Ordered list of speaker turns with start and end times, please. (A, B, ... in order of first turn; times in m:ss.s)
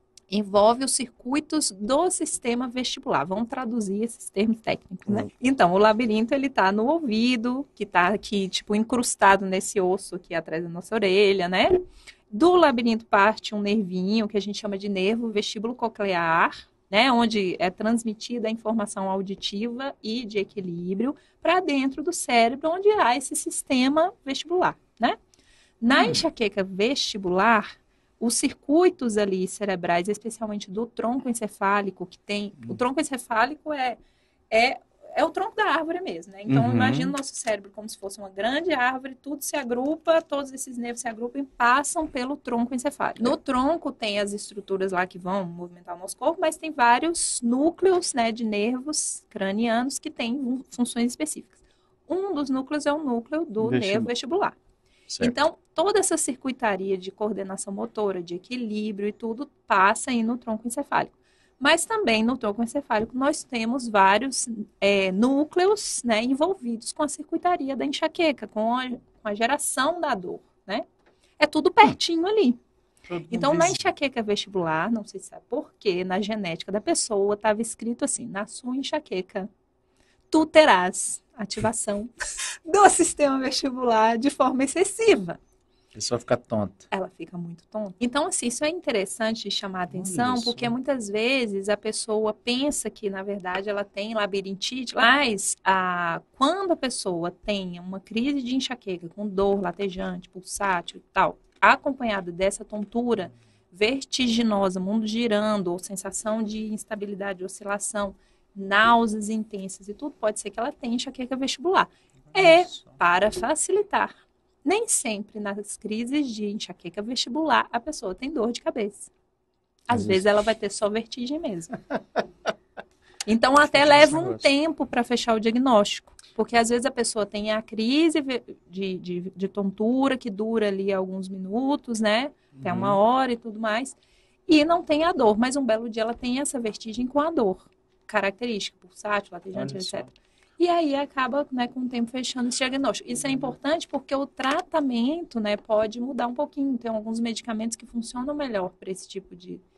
0:00.3-0:11.8 A
0:12.3-0:25.2 A
0:25.8-0:27.7 A
0:28.2-0:34.0 A
0:34.5-0:54.6 A
0:36.5-0:37.1 B
0:53.6-0:54.1 B
0:55.1-0:55.4 B
0:55.2-1:10.8 A
1:11.4-1:12.6 A
1:13.1-1:13.8 B
1:13.3-1:19.5 A
1:20.3-1:22.1 A
1:22.6-1:25.4 A
1:26.0-1:26.9 B
1:26.9-1:54.1 A
1:29.9-1:30.7 B
1:52.3-1:53.0 B
1:54.6-1:59.1 A
1:59.9-2:01.8 A
1:59.9-2:00.2 B
2:03.3-2:14.0 A
2:03.7-2:04.4 B
2:12.6-2:13.0 B
2:14.5-2:20.1 A
2:19.5-2:20.1 B
2:20.6-2:29.6 A